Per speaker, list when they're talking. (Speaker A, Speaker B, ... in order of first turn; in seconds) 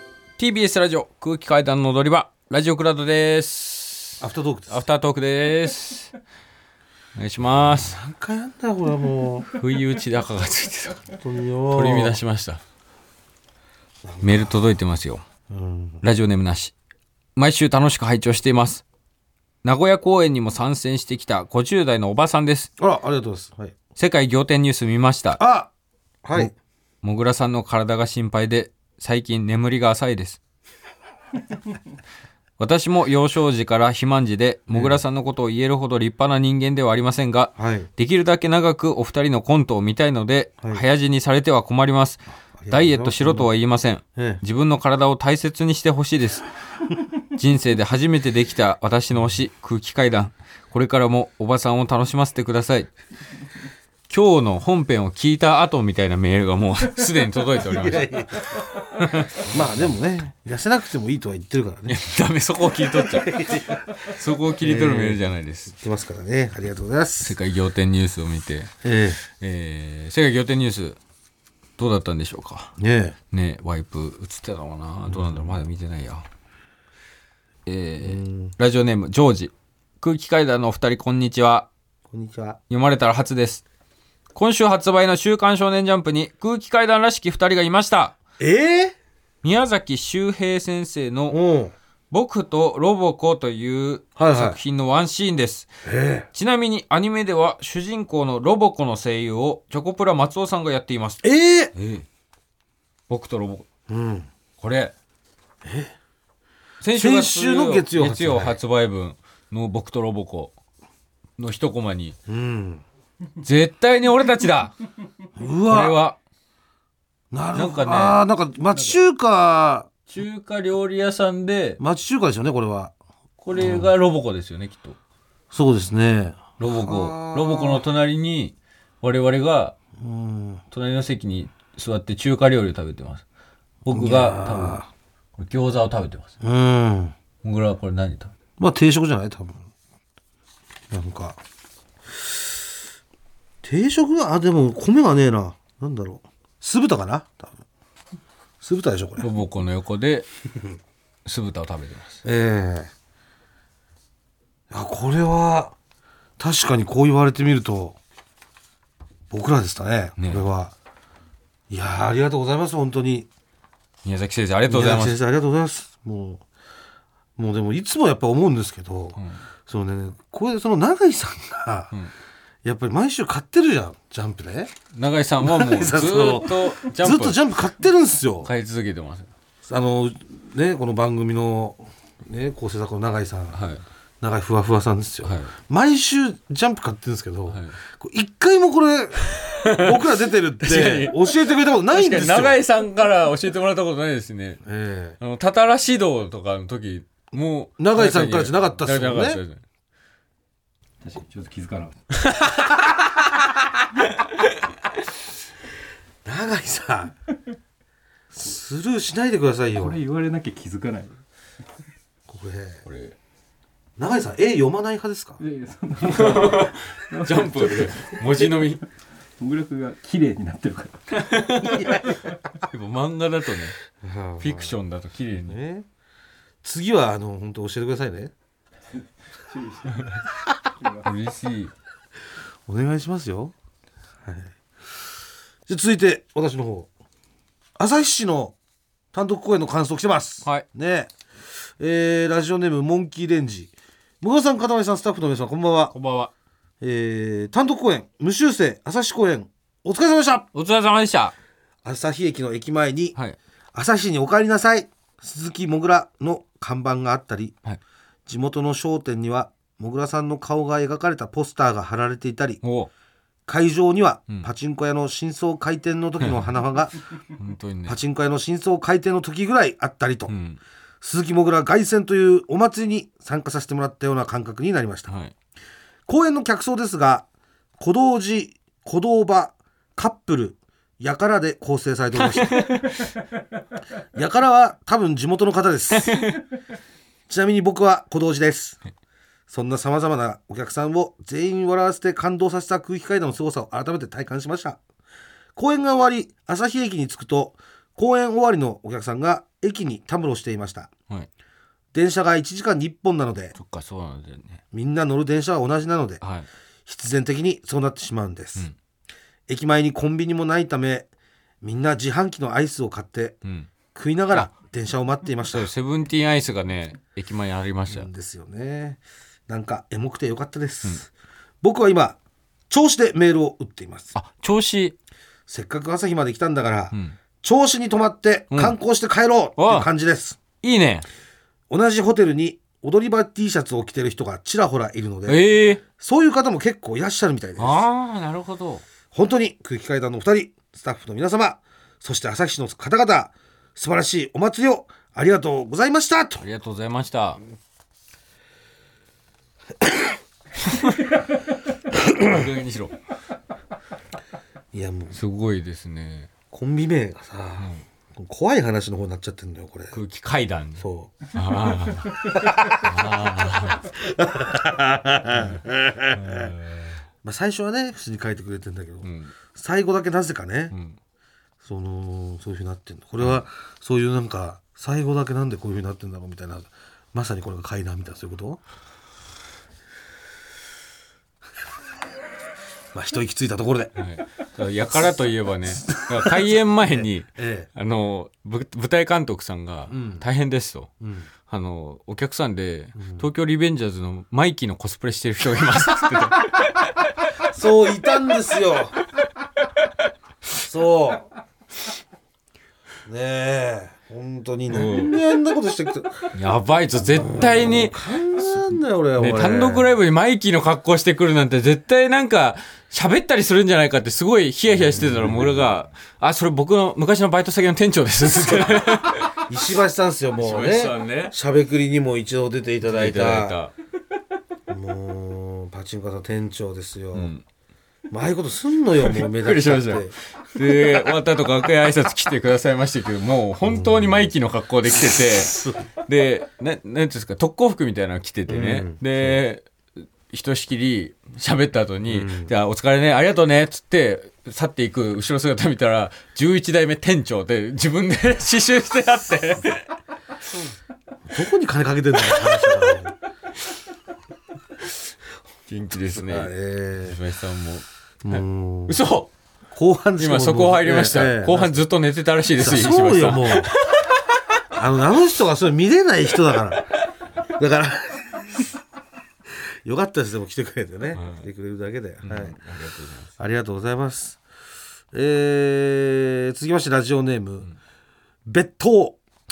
Speaker A: 0.4-6.1, 7.2-8.0, 9.5-11.2, 11.7-12.6, 14.2-15.2, 16.0-16.7, 17.4-18.8, 19.6-22.7, 24.0-25.4, 27.0-30.4, 32.6-46.5, 47.4-52.9, 54.1-58.2, 59.0-59.6, 61.9-65.7, 67.2-71.0, 71.8-72.7, 73.3-76.3, 77.7-81.7, 82.7-83.6, 84.3-88.2, 89.4-91.4, 92.1-95.7, 96.3-101.2, 101.8-102.0, 103.1-103.7, 104.6-104.9, 106.8-110.5, 111.4-112.2, 113.4-114.8, 115.7-116.2, 117.5-118.2, 120.1-121.8, 123.4-125.0, 126.6-129.8, 130.7-133.2, 133.8-134.8, 135.4-136.3, 137.4-138.3, 149.2-150.3, 151.2-152.2, 160.2-160.4, 164.1-165.2, 174.9-177.4, 178.4-179.3, 183.5-183.8, 185.2-185.5, 189.3-191.3, 191.9-194.6, 195.2-199.6, 202.1-203.3, 204.1-204.5, 212.8-213.2, 216.0-218.8, 221.1-222.1, 222.6-223.8, 224.4-225.6, 231.0-231.7, 245.9-246.3, 250.5-251.3, 262.6-262.9, 267.4-268.0, 270.3-270.6, 282.1-283.1, 285.9-286.4, 303.6-304.6, 306.2-306.5, 313.4-313.7, 315.5-318.1, 324.1-325.0, 329.6-329.9, 330.6-331.1, 335.3-335.8, 337.6-338.8, 346.4-347.4, 350.6-351.0, 352.1-353.0, 355.1-356.3, 359.9-363.9, 365.3-365.6, 366.1-367.0, 369.0-369.3, 370.7-371.0, 384.0-390.9, 391.5-397.3, 404.7-405.2, 406.3-408.0, 409.2-419.4, 420.4-421.3, 422.9-423.7, 427.1-427.4, 429.0-449.9, 455.7-459.3, 460.2-464.2, 471.2-471.4, 472.2-473.3
Speaker B: 4.2-4.8, 7.8-9.5, 11.2-12.2, 14.1-14.4, 15.5-16.0, 22.8-23.8, 25.4-25.7, 26.2-26.5, 34.7-35.0, 37.6-37.9, 42.6-43.5, 44.2-44.4, 57.8-58.7, 59.4-62.0, 63.0-63.9, 64.6-67.4, 68.8-69.2, 72.8-73.2, 75.1-75.5, 78.0-78.5, 82.1-82.6, 88.4-89.0, 91.3-91.7, 94.2-94.6, 95.8-96.3, 101.2-101.7, 103.9-104.3, 105.6-106.0, 107.0-108.6, 112.3-112.8, 115.4-116.0, 117.3-119.9, 121.8-122.9, 123.5-123.9, 125.5-127.9, 130.0-130.6, 133.9-134.9, 136.4-137.2, 138.6-139.7, 140.9-141.4, 143.6-147.6, 148.6-149.3, 152.2-152.9, 154.7-155.8, 156.4-158.0, 159.3-160.7, 161.7-163.3, 164.7-166.4, 167.4-171.9, 172.6-174.8, 175.4-178.5, 179.7-183.7, 184.2-192.6, 194.6-195.2, 197.8-199.4, 206.2-207.1, 208.3-210.0, 212.3-212.8, 214.0-215.4, 224.0-224.8, 225.5-225.9, 226.6-228.3, 232.7-233.5, 234.2-234.5, 235.7-236.9, 237.8-238.6, 239.1-241.1, 241.8-245.9, 246.8-250.5, 251.8-253.2, 253.7-257.6, 258.3-262.6, 263.5-266.9, 267.9-270.3, 271.0-275.1, 276.1-277.3, 277.8-282.8, 284.2-286.3, 287.3-288.8, 289.5-294.8, 295.6-300.9, 301.9-303.6, 304.7-306.2, 306.9-308.7, 309.5-311.1, 311.6-313.4, 313.9-315.7, 317.9-321.1, 321.6-322.2, 322.7-324.1, 325.5-330.4, 331.7-337.8, 339.1-346.4, 349.8-350.1, 351.9-352.4, 354.7-355.2, 356.5-360.0, 360.8-361.1, 362.4-362.9, 363.9-366.5, 367.2-370.8, 371.6-378.6, 382.9-384.0, 385.8-387.7, 389.9-390.2, 391.0-391.3, 393.0-393.3, 397.4-399.0, 400.6-401.3, 403.1-406.3, 407.4-409.9, 414.9-415.6, 418.4-418.8, 419.4-423.6, 424.7-427.3, 428.1-430.2, 438.5-439.4, 442.1-442.5, 451.3-453.1, 456.1-457.2, 458.2-459.0, 459.7-461.9, 462.6-463.7, 464.7-466.9, 467.6-468.7, 469.5-472.6, 473.4-474.4, 475.1-477.7, 478.5-479.2
Speaker C: 201.0-202.0, 209.8-211.2, 215.4-218.8, 219.4-222.2, 229.4-230.2, 230.8-231.1